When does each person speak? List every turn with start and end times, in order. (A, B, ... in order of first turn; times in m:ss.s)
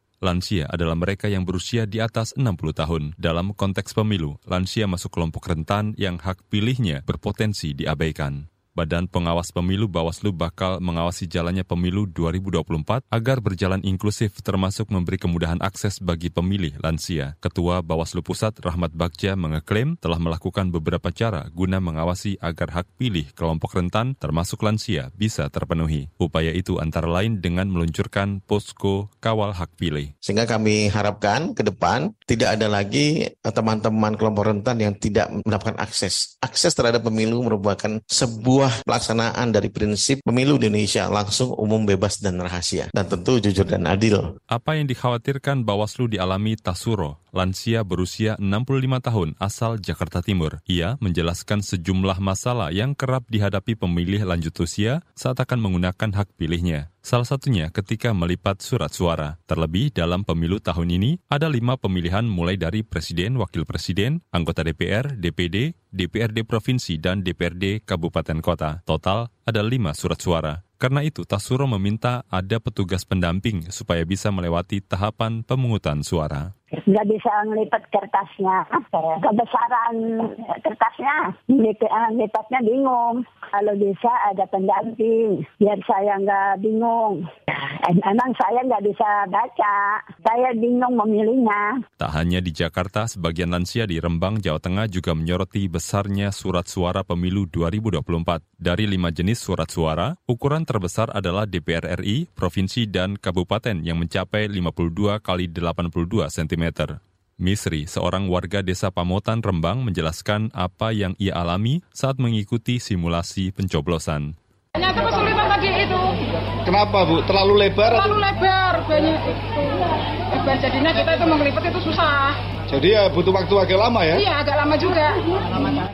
0:00.2-0:30.1 A
0:30.2-0:44.2 B
0:44.5-1:16.5 A
1:16.9-1:31.7 C
1:32.0-1:54.3 A
1:54.7-1:56.2 D
1:56.6-1:58.1 E
1:57.9-1:59.8 D
2:00.3-2:02.4 D
2:02.7-2:04.2 E
2:04.1-2:05.8 D